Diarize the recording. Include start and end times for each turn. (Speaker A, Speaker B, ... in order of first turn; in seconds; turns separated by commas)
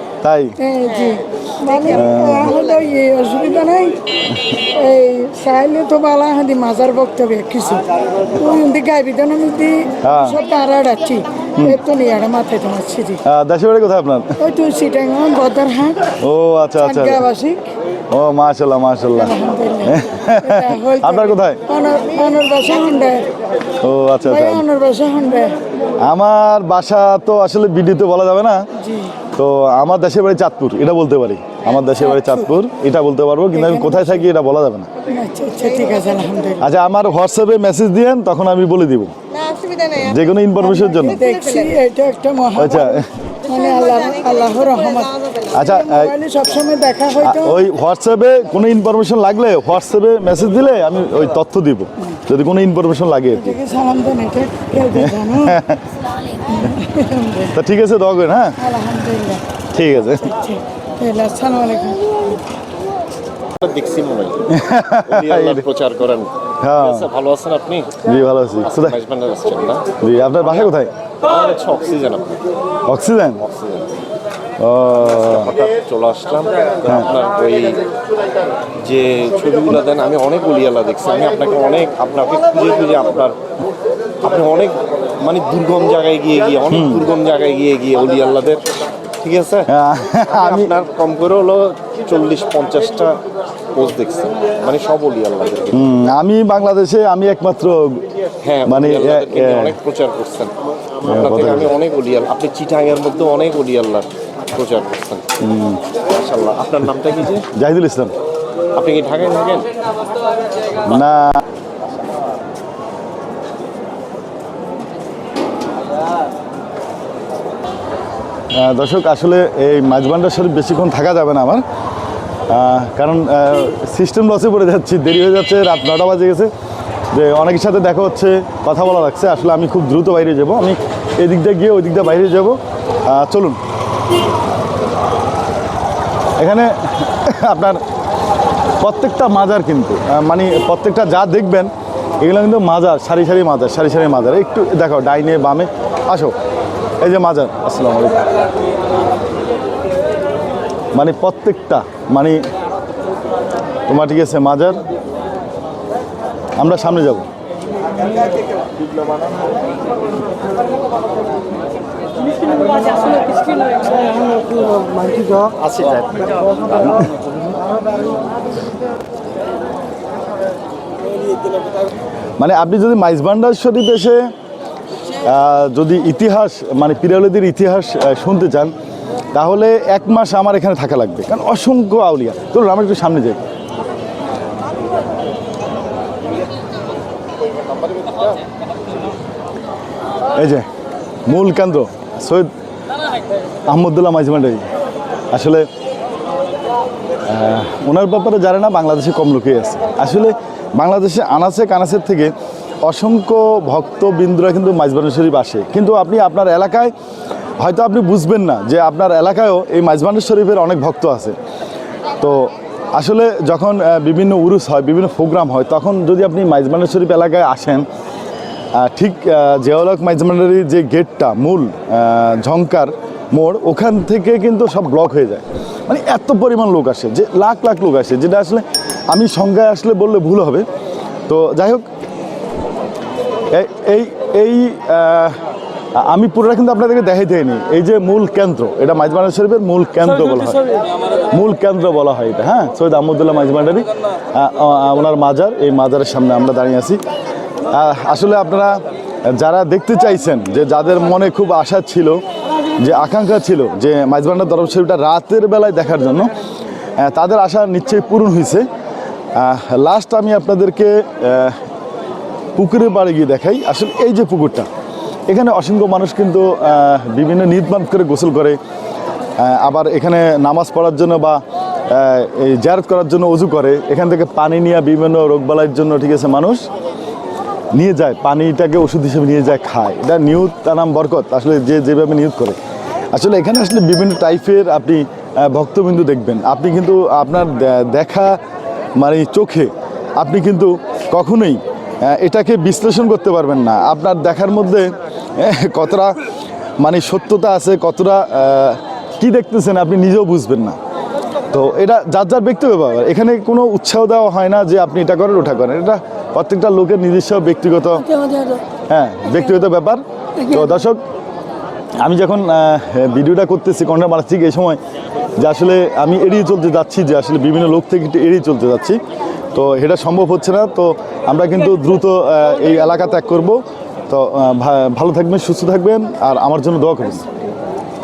Speaker A: 0.2-0.6, Speaker B: 0.6-13.2, Speaker A: 1.9-2.5, Speaker A: 10.0-10.4, Speaker A: 13.2-14.4, Speaker B: 14.4-16.1, Speaker A: 16.1-17.2, Speaker B: 16.8-17.7, Speaker A: 18.1-21.6, Speaker B: 19.2-23.3, Speaker A: 23.8-24.7, Speaker B: 24.3-25.6, Speaker A: 26.0-28.7, Speaker B: 28.8-29.1, Speaker A: 29.3-34.9, Speaker B: 35.1-36.6, Speaker A: 36.6-39.1, Speaker C: 39.3-40.1, Speaker A: 39.9-41.2, Speaker B: 40.6-47.6, Speaker C: 41.2-41.7, Speaker A: 42.5-43.1, Speaker C: 43.5-45.5, Speaker A: 45.5-46.1, Speaker A: 47.2-53.6, Speaker B: 53.4-55.6, Speaker A: 54.8-55.8, Speaker B: 56.5-57.6, Speaker A: 57.5-58.6, Speaker B: 58.6-59.4, Speaker A: 59.7-60.4, Speaker B: 60.3-62.3, Speaker D: 63.6-68.0, Speaker A: 64.5-65.6, Speaker A: 66.6-67.1, Speaker A: 68.0-69.0, Speaker D: 68.6-69.9, Speaker A: 70.0-70.9, Speaker D: 71.2-72.4, Speaker A: 72.9-73.4, Speaker D: 73.4-74.0, Speaker A: 74.6-75.5, Speaker D: 75.0-77.9, Speaker D: 78.8-83.4, Speaker D: 84.2-88.6, Speaker A: 86.7-87.0, Speaker D: 89.2-93.2, Speaker A: 89.7-90.7, Speaker D: 93.7-95.9, Speaker A: 95.7-98.1, Speaker D: 98.4-105.4, Speaker A: 98.6-99.7, Speaker A: 101.0-101.7, Speaker A: 105.4-105.8, Speaker D: 106.0-107.5, Speaker A: 107.5-108.1, Speaker D: 108.7-109.7, Speaker A: 110.8-111.4, Speaker A: 118.5-121.6, Speaker A: 122.5-126.5, Speaker A: 127.1-133.6, Speaker A: 136.4-137.8, Speaker A: 138.8-146.3, Speaker A: 147.0-148.3, Speaker A: 150.9-152.4, Speaker A: 153.9-154.8, Speaker A: 156.6-157.3, Speaker D: 165.0-167.0, Speaker A: 172.4-174.3, Speaker A: 175.2-178.7, Speaker A: 179.3-183.4, Speaker A: 190.3-190.7, Speaker A: 191.2-192.5, Speaker A: 193.7-194.6, Speaker A: 195.3-195.7, Speaker A: 197.2-202.3, Speaker A: 202.8-206.9, Speaker A: 207.6-211.3, Speaker A: 212.2-217.8, Speaker A: 218.8-230.7, Speaker A: 231.3-231.9, Speaker A: 233.5-235.4, Speaker A: 235.9-240.6, Speaker A: 241.3-247.0, Speaker A: 247.7-248.8, Speaker A: 249.3-252.2, Speaker A: 252.8-256.3, Speaker A: 257.0-258.6, Speaker A: 259.3-261.6, Speaker A: 262.6-264.7, Speaker A: 265.3-268.6, Speaker A: 269.4-276.6, Speaker A: 277.7-282.6, Speaker A: 283.1-288.4, Speaker A: 289.0-296.2, Speaker A: 296.8-300.8, Speaker A: 301.5-308.2, Speaker B: 308.1-308.6, Speaker A: 308.9-311.0, Speaker A: 312.0-314.8, Speaker A: 315.4-319.0, Speaker A: 319.5-327.2